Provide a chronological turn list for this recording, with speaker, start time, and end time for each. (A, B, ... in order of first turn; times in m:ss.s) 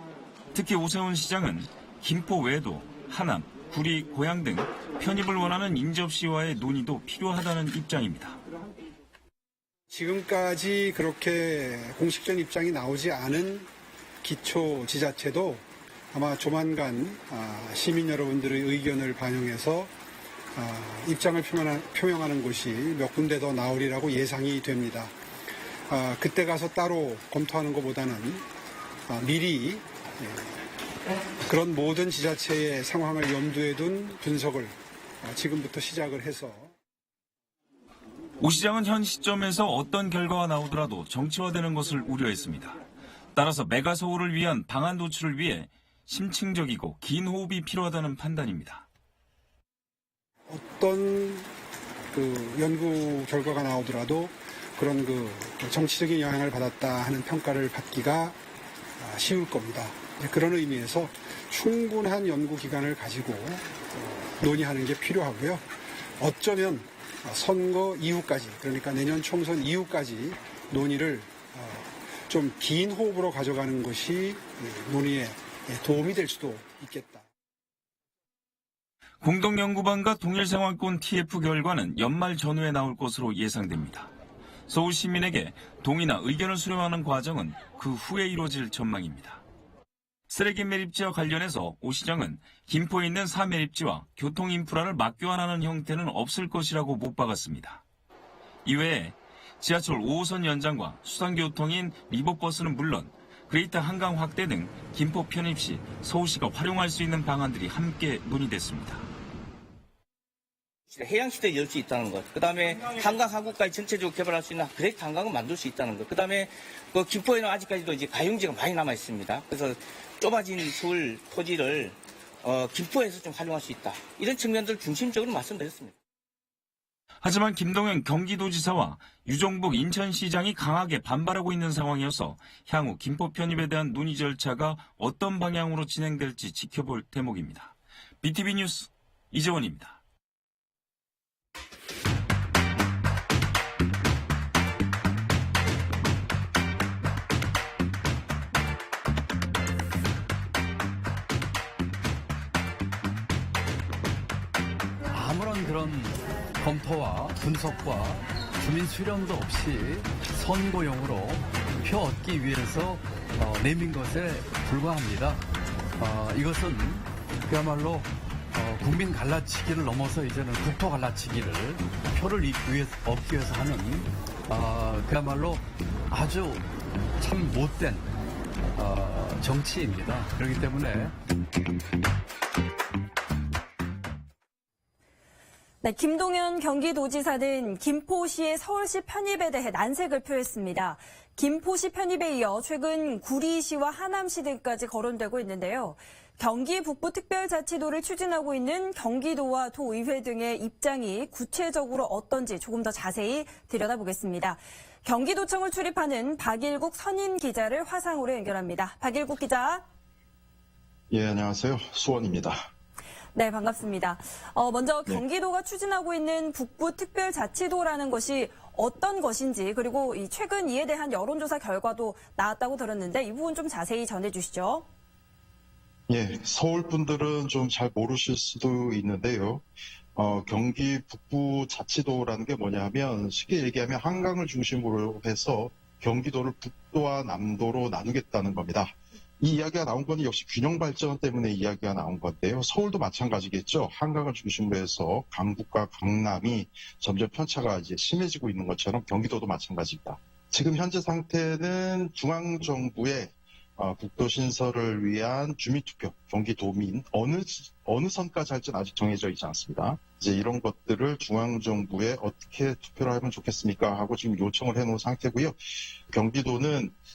0:00.5-0:08.4 A
0:09.9-0:13.7 B
0:14.2-0:19.9 B
0:20.5-0:25.1 B
0:25.9-0:28.4 B
0:29.1-0:30.5 B
0:31.4-0:36.7 B
0:38.4-0:42.8 A
0:43.3-0:48.8 A
0:50.5-0:51.5 B
0:52.1-0:58.4 B
0:59.0-1:05.7 B
1:06.2-1:17.2 B
1:19.2-1:24.1 A
1:24.7-1:29.4 A
1:30.3-1:37.8 A
1:38.6-1:49.1 A
1:50.9-2:05.9 C
2:07.2-2:20.0 A
2:35.1-2:45.4 D
2:46.0-2:58.1 D
2:58.7-3:01.1 D
3:05.8-3:29.8 E
3:31.1-3:32.6 F
3:33.3-3:44.8 E
3:46.1-4:25.6 F
4:26.1-4:26.9 F